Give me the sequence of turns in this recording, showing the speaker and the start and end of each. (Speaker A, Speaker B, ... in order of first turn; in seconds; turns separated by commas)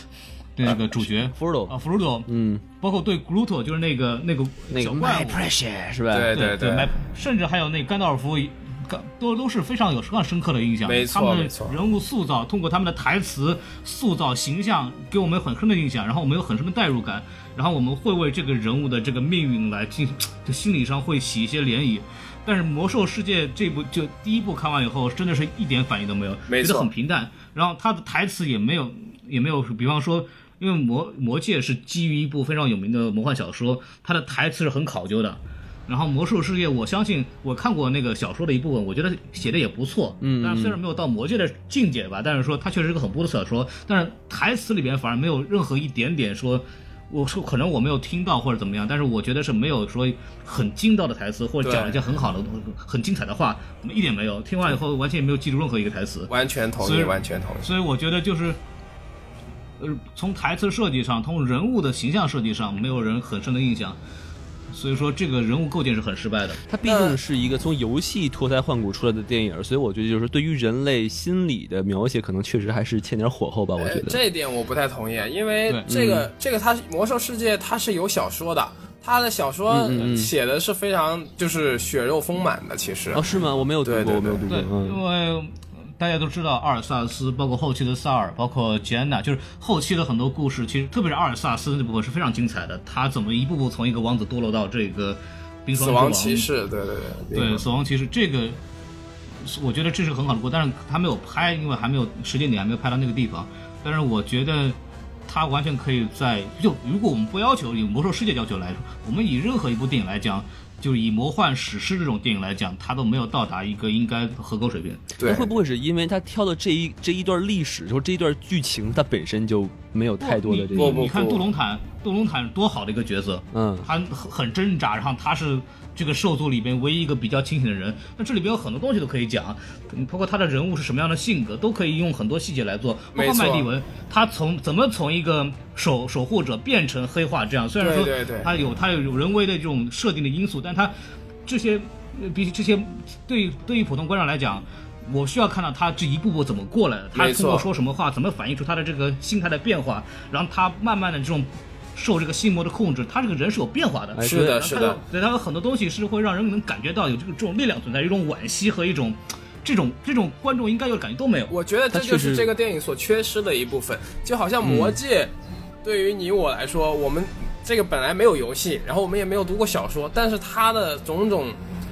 Speaker A: 0.6-2.3, Speaker B: 1.3-1.7, Speaker B: 2.3-2.6, Speaker A: 2.8-5.4, Speaker B: 4.7-6.4, Speaker C: 6.1-6.9, Speaker A: 6.3-58.6, Speaker C: 10.8-11.8, Speaker C: 26.5-26.9, Speaker B: 40.2-40.8, Speaker C: 51.6-52.0, Speaker C: 56.3-57.7, Speaker A: 59.8-64.0, Speaker A: 64.7-66.6, Speaker B: 66.7-74.2, Speaker C: 66.8-67.2, Speaker C: 73.8-83.2, Speaker B: 75.9-76.3, Speaker B: 79.7-80.3, Speaker B: 83.1-85.0, Speaker C: 83.8-84.4, Speaker A: 84.5-96.5, Speaker C: 95.7-97.6, Speaker A: 97.3-98.6, Speaker A: 99.4-115.1, Speaker C: 115.2-115.5, Speaker B: 115.2-121.0, Speaker A: 120.2-140.9, Speaker C: 120.7-121.4, Speaker B: 123.5-123.9, Speaker C: 133.1-133.7, Speaker C: 137.8-138.5, Speaker A: 141.4-161.5, Speaker C: 147.1-147.7, Speaker B: 154.1-154.7, Speaker C: 154.2-155.0, Speaker C: 161.5-165.3, Speaker B: 161.9-162.5, Speaker B: 164.6-165.0, Speaker C: 165.8-171.6